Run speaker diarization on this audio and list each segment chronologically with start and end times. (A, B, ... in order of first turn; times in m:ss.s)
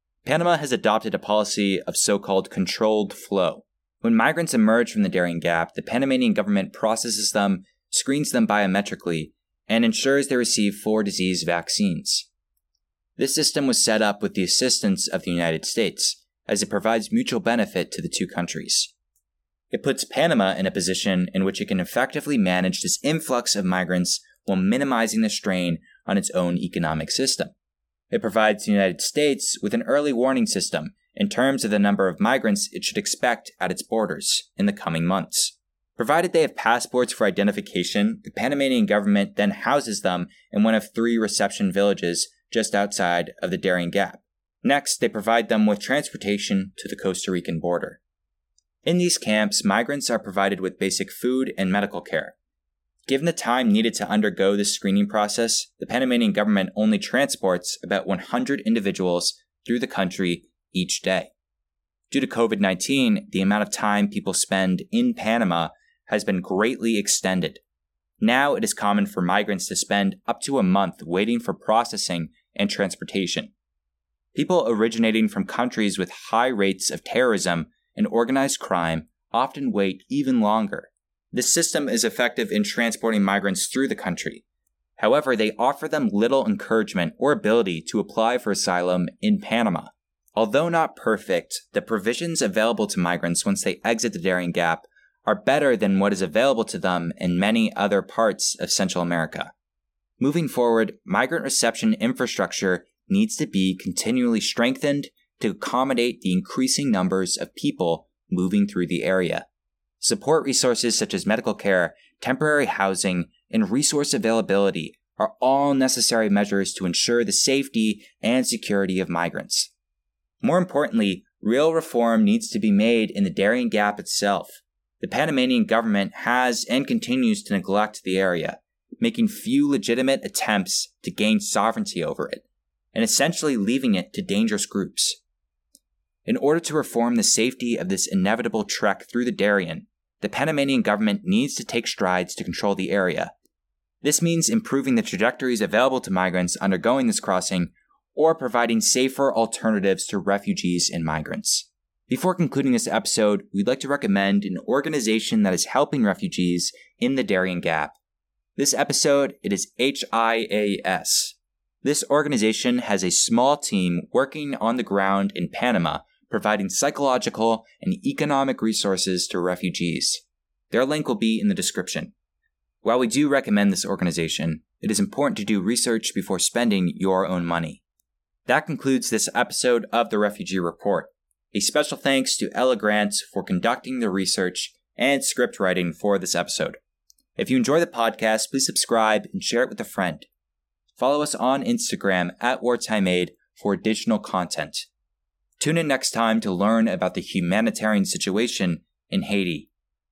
0:00.2-0:12.3 A
0:13.2-0:18.9 A
0:19.7-0:27.5 A
0:28.1-0:48.0 A
0:48.8-0:52.4 A
0:53.1-1:01.3 A
1:02.1-1:07.6 A
1:08.2-1:13.5 A
1:14.3-1:24.4 A
1:25.0-1:39.5 A
1:40.2-1:49.5 A
1:50.0-1:59.7 A
2:00.4-2:15.2 A
2:16.3-2:23.3 A
2:24.0-2:38.0 A
2:38.6-2:52.1 A
2:52.8-2:57.8 A
2:58.5-3:06.8 A
3:07.4-3:10.3 A
3:11.0-3:14.9 A
3:15.6-3:19.7 A